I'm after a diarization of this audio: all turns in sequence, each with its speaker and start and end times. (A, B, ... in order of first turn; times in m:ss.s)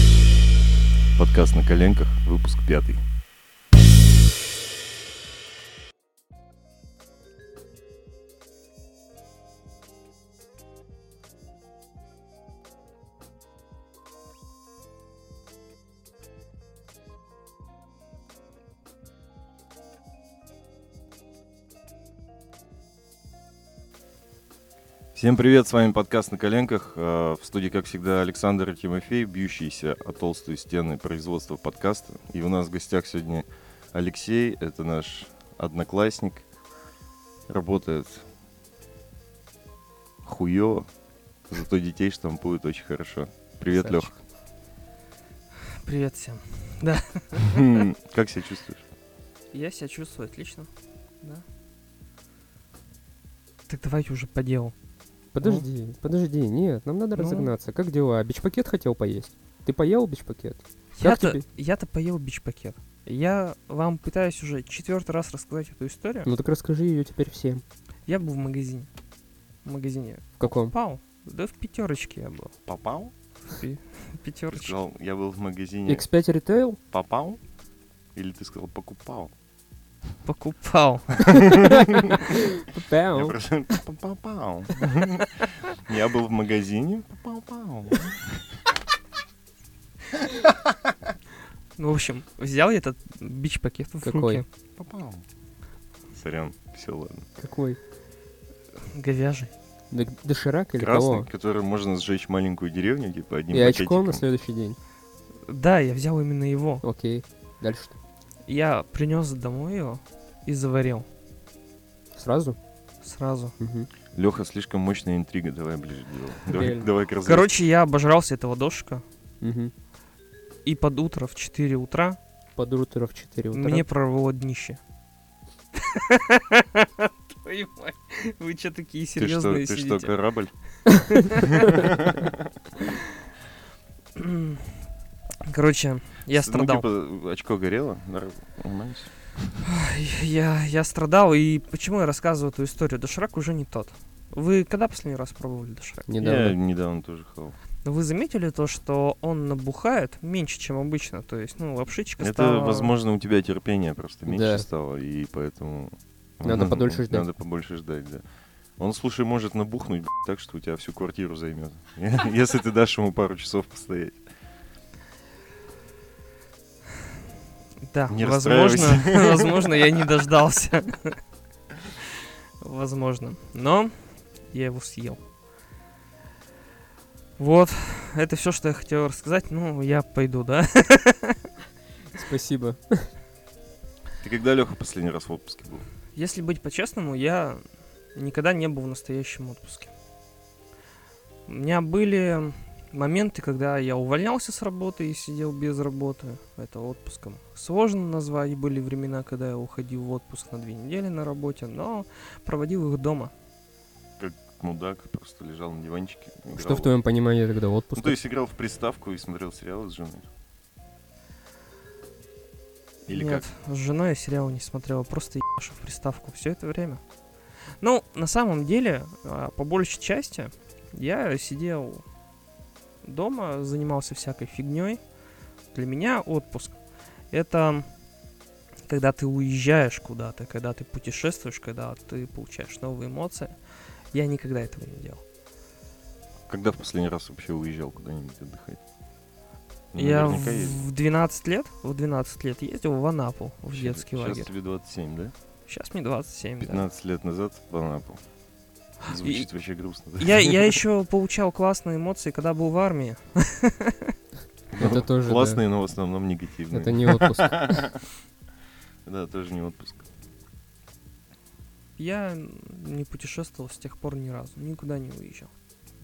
0:01.2-0:03.0 A
0:25.1-0:36.4 A
0:37.5-0:38.3 A
0:40.2-0:40.9 A
0:41.5-0:44.1 A
0:43.7-0:44.1 B
0:45.7-0:47.8 C
0:47.5-0:48.9 A
0:49.5-0:50.7 C
0:53.7-0:54.7 C
0:55.3-1:01.4 B
0:55.4-0:55.6 C
0:57.2-0:57.5 C
1:01.0-1:06.3 C
1:06.2-1:07.6 B
1:08.1-1:08.9 C
1:09.6-1:12.5 C
1:10.4-1:10.7 B
1:12.6-1:13.1 A
1:13.5-1:14.8 C
1:14.5-1:16.0 A
1:15.8-1:16.8 B
1:16.9-1:17.4 A
1:18.2-1:19.3 A
1:20.2-1:21.7 C
1:21.3-1:22.2 A
1:21.7-1:23.4 B
1:23.1-1:28.4 A
1:31.8-1:34.4 C
1:34.0-1:34.4 B
1:34.8-1:35.2 A
1:36.1-1:37.2 A
1:37.4-1:37.8 B
1:38.9-1:39.5 C
1:39.9-1:41.3 B
1:40.8-1:44.2 A
1:43.5-1:44.8 B
1:45.5-1:46.8 C
1:46.8-1:48.0 B
1:48.5-1:51.1 C
1:52.1-1:52.6 B
1:53.0-1:53.5 C
1:53.6-1:53.9 B
1:54.1-1:57.6 A
1:56.5-1:56.9 B
1:57.2-1:59.0 C
1:59.4-1:59.7 B
2:00.6-2:02.2 C
2:02.6-2:03.8 B
2:03.5-2:04.8 C
2:05.8-2:10.1 C
2:09.2-2:10.5 A
2:11.1-2:11.7 C
2:11.5-2:12.4 A
2:14.2-2:14.6 C
2:15.5-2:16.8 C
2:16.3-2:19.4 A
2:19.7-2:26.0 C
2:26.1-2:26.6 B
2:26.2-2:27.6 A
2:27.8-2:32.9 C
2:32.2-2:38.2 A
2:34.3-2:34.6 B
2:36.4-2:37.3 B
2:38.8-2:44.2 A
2:47.9-2:51.2 C
2:48.1-2:49.7 A
2:52.6-2:55.2 C
2:57.4-3:01.4 C
3:02.1-3:03.1 B
3:04.2-3:05.8 A
3:06.2-3:07.6 C
3:08.1-3:09.9 C
3:11.5-3:23.3 C
3:24.2-3:26.9 A
3:26.5-3:28.2 B
3:27.9-3:30.3 A
3:33.1-3:33.4 A
3:33.1-3:37.0 C
3:37.8-3:42.0 C
3:43.0-3:45.0 C
3:45.7-3:47.9 C
3:48.9-3:53.5 C
3:54.1-3:55.2 C
3:56.5-3:58.8 A
3:59.9-4:00.8 A
4:00.0-4:04.5 C
4:03.7-4:05.3 A
4:05.7-4:06.8 C
4:06.6-4:08.2 A
4:09.0-4:10.8 A
4:09.2-4:09.5 C
4:10.2-4:14.1 C
4:14.7-4:18.0 A
4:14.8-4:15.6 B
4:16.7-4:17.8 B
4:19.0-4:20.0 A
4:22.0-4:25.5 C